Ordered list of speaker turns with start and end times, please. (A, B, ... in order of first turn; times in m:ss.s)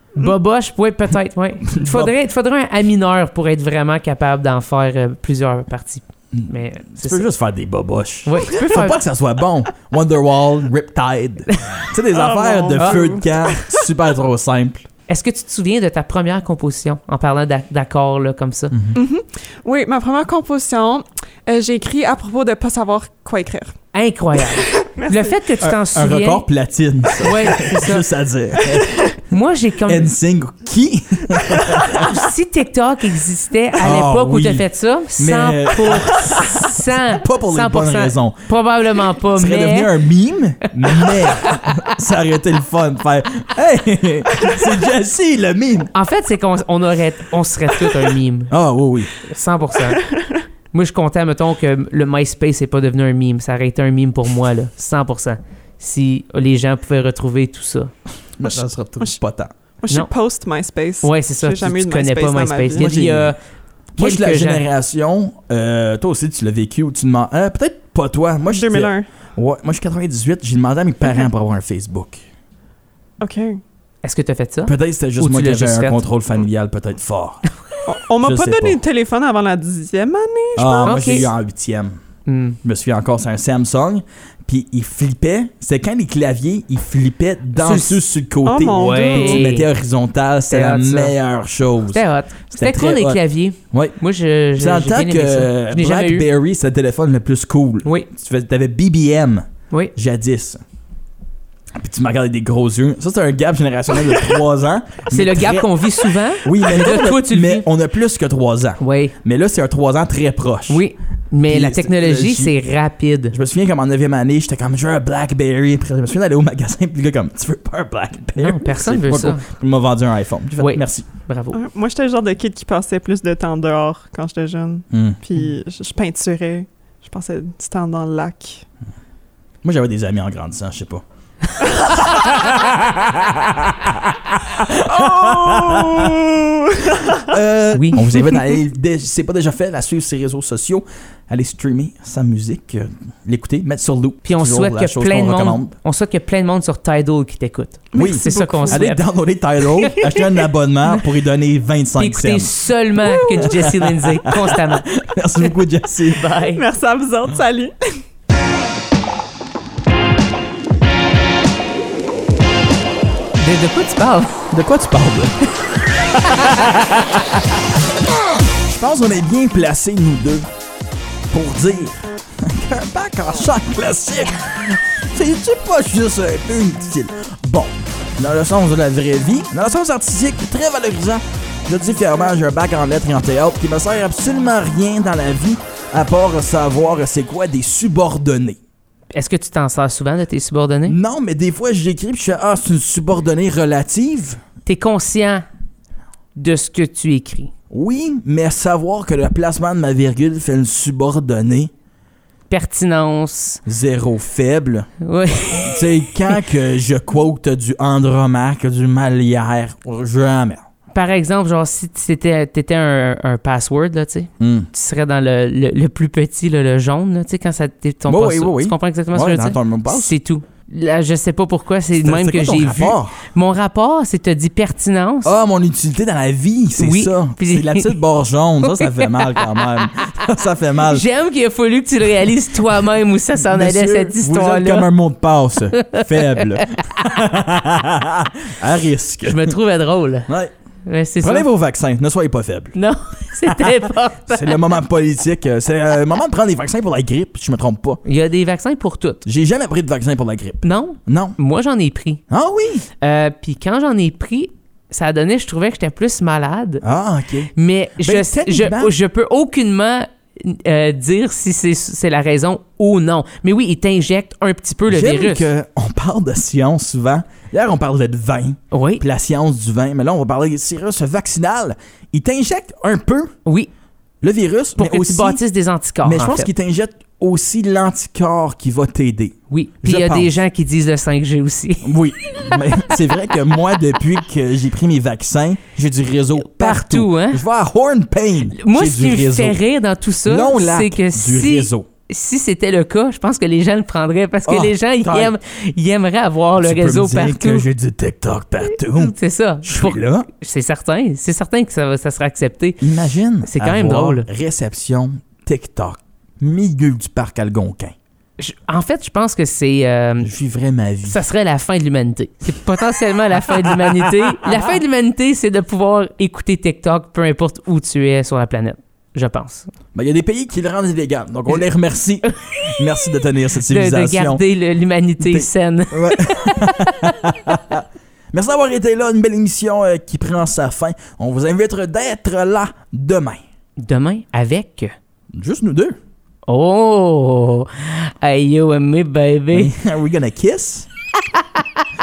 0:00.2-0:07.2 A
0:01.7-0:02.1 B
0:06.3-0:14.9 B
0:08.2-0:09.0 A
0:12.1-0:13.9 C
0:12.8-0:13.0 A
0:15.1-0:18.8 A
0:18.7-0:19.0 B
0:18.9-0:23.8 C
0:23.9-0:26.4 A
0:24.5-0:25.2 C
0:25.6-0:29.0 B
0:27.2-0:28.1 A
0:28.6-0:29.1 C
0:29.3-0:30.1 A
0:29.8-0:32.1 B
0:31.8-0:39.9 A
0:33.8-0:34.7 B
0:35.2-0:38.4 B
0:39.4-0:45.9 B
0:40.9-0:41.5 A
0:45.9-0:48.5 A
0:48.5-0:49.1 B
0:49.2-0:50.0 A
0:49.9-0:50.4 C
0:50.7-0:57.9 A
0:58.4-0:59.5 B
0:59.8-1:02.9 C
1:01.0-1:03.4 A
1:02.8-1:03.3 B
1:04.0-1:04.6 A
1:04.0-1:12.2 B
1:08.5-1:09.1 C
1:13.2-1:13.6 C
1:14.0-1:16.0 A
1:14.6-1:17.4 B
1:17.9-1:21.3 C
1:18.2-1:18.8 B
1:20.6-1:22.0 B
1:20.9-1:21.3 A
1:22.3-1:22.6 A
1:22.6-1:33.2 B
1:27.6-1:28.0 A
1:28.4-1:29.5 C
1:28.7-1:29.7 A
1:30.5-1:31.2 A
1:31.9-1:36.3 A
1:33.7-1:34.0 B
1:34.6-1:40.6 B
1:41.7-1:50.8 B
1:45.1-1:47.6 A
1:48.8-1:49.2 A
1:50.7-1:53.4 A
1:51.5-1:52.6 B
1:53.3-2:01.0 B
1:58.4-1:59.4 A
2:00.6-2:01.6 A
2:01.5-2:08.6 C
2:04.9-2:05.2 B
2:09.6-2:11.0 B
2:12.0-2:16.2 B
2:14.9-2:17.3 C
2:17.2-2:25.7 B
2:17.7-2:18.1 A
2:24.3-2:29.0 A
2:27.9-2:28.8 C
2:28.0-2:32.5 B
2:29.8-2:30.2 A
2:30.0-2:30.3 C
2:32.0-2:34.9 A
2:33.0-2:33.8 C
2:33.3-2:36.3 B
2:36.1-2:36.6 A
2:36.5-2:38.0 C
2:43.4-2:44.5 A
2:44.5-2:45.4 B
2:46.1-2:47.8 B
2:48.4-2:50.4 B
2:51.3-3:08.6 B
3:09.1-3:11.0 A
3:10.9-3:14.4 B
3:14.6-3:15.4 A
3:16.4-3:17.5 A
3:17.7-3:21.7 B
3:22.5-3:23.6 A
3:23.7-3:24.9 B
3:25.0-3:25.8 A
3:25.6-3:30.6 B
3:30.9-3:45.3 A
3:34.4-3:34.7 B
3:38.1-3:40.2 B
3:42.0-3:43.2 B
3:45.2-3:51.1 B
3:46.8-3:47.9 A
3:48.6-3:50.0 A
3:50.9-3:54.9 A
3:53.4-3:59.6 B
3:55.8-3:57.2 A
3:59.2-4:00.3 A
4:00.3-4:00.5 B
4:00.9-4:01.5 A
4:01.2-4:02.8 B
4:02.8-4:04.7 A
4:03.4-4:08.0 B
4:08.0-4:09.2 A
4:09.2-4:11.4 B
4:10.6-4:12.2 A
4:12.3-4:12.9 B
4:13.0-4:16.8 A
4:16.8-4:18.9 B
4:17.6-4:25.5 A
4:24.9-4:33.4 B
4:28.7-4:29.0 A
4:33.4-4:33.7 A
4:34.2-4:35.4 B
4:34.8-4:36.5 A
4:36.0-4:40.3 B
4:39.5-4:42.8 A
4:41.8-4:49.6 B
4:46.4-4:47.4 A
4:48.6-4:57.7 A
4:50.3-4:51.9 B
4:54.5-4:55.3 B
4:56.6-5:00.3 B
4:58.7-5:02.9 A
5:02.8-5:08.0 B
5:03.4-5:04.3 A
5:08.4-5:10.3 A
5:10.2-5:11.2 B
5:11.1-5:19.7 A
5:13.5-5:14.6 B
5:19.9-5:24.4 B
5:22.3-5:22.7 A
5:23.6-5:27.2 A
5:25.2-5:33.4 B
5:33.8-5:34.9 A
5:35.3-5:36.0 B
5:36.5-5:39.7 A
5:39.5-5:40.9 B